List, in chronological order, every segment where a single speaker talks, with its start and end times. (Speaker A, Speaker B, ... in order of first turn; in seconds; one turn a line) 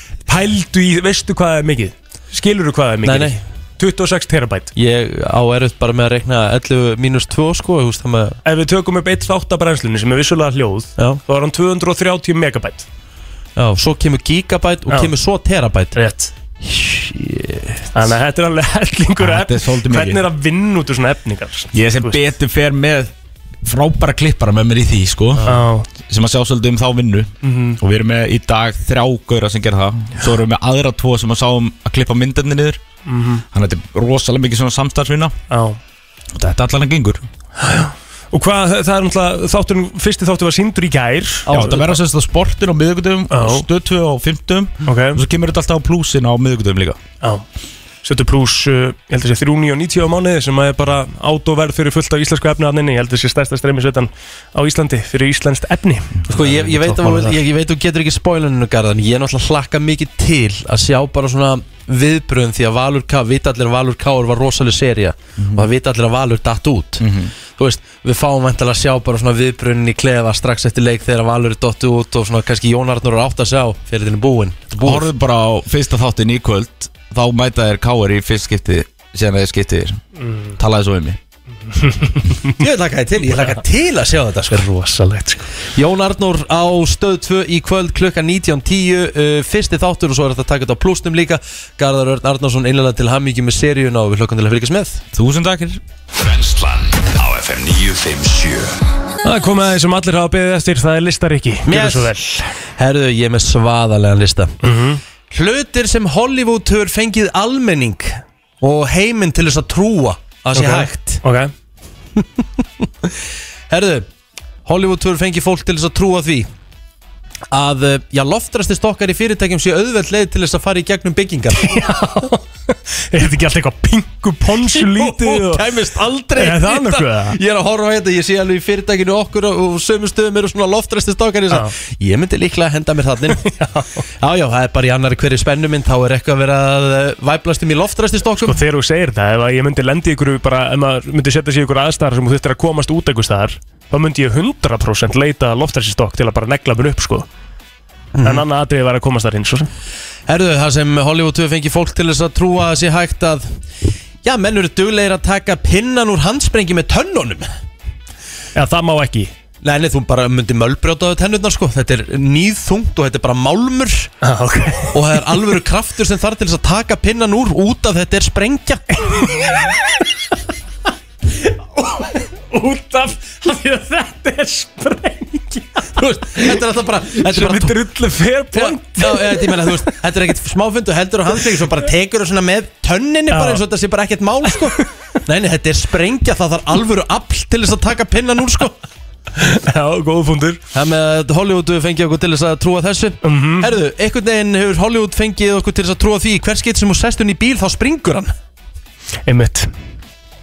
Speaker A: 0.3-4.7
Speaker B: 3.0-3.4
Speaker B: 4.8-8.4
Speaker A: 8.4-12.9
Speaker B: 13.6-16.0
Speaker A: 15.9-16.3
Speaker B: 16.6-17.9
Speaker A: 17.9-22.2
Speaker C: 19.2-20.2
Speaker C: 21.7-23.1
Speaker C: 23.6-32.8
Speaker A: 25.4-25.9
Speaker A: 27.4-27.8
Speaker A: 33.1-33.4
Speaker C: 33.5-35.4
Speaker A: 35.5-35.8
Speaker C: 36.4-37.2
Speaker A: 37.6-41.9
Speaker C: 41.5-47.0
Speaker A: 43.3-43.7
Speaker A: 44.9-45.2
Speaker A: 48.0-57.4
Speaker B: 56.3-75.1
Speaker C: 65.4-65.7
Speaker C: 67.0-67.3
Speaker C: 74.8-80.0
Speaker A: 80.2-80.5
Speaker C: 80.6-81.2
Speaker A: 81.7-82.6
Speaker B: 82.6-84.7
Speaker A: 84.5-85.5
Speaker B: 85.8-95.0
Speaker C: 95.1-95.8
Speaker D: 96.2-98.8
Speaker A: 99.2-102.4
Speaker B: 101.7-102.2
Speaker B: 102.8-104.6
Speaker A: 104.6-105.0
Speaker B: 105.3-111.2
Speaker A: 110.5-111.5
Speaker B: 112.2-113.1
Speaker B: 113.7-114.1
Speaker B: 114.7-116.5
Speaker B: 117.5-121.8
Speaker A: 121.6-125.6
Speaker B: 124.6-133.4
Speaker A: 126.4-127.4
Speaker A: 133.3-134.0
Speaker B: 134.2-138.6
Speaker A: 138.4-147.3
Speaker B: 148.2-148.4
Speaker A: 148.2-149.7
Speaker B: 150.3-153.5
Speaker B: 154.2-157.5
Speaker A: 158.6-159.3
Speaker B: 159.6-164.1
Speaker A: 164.2-165.4
Speaker B: 164.9-169.0
Speaker A: 169.0-169.8
Speaker A: 171.8-176.4
Speaker B: 176.0-177.8
Speaker A: 177.2-179.9
Speaker B: 178.5-188.7
Speaker A: 183.3-183.6
Speaker A: 189.4-190.6
Speaker B: 190.7-198.3
Speaker A: 193.2-193.7
Speaker A: 199.3-199.7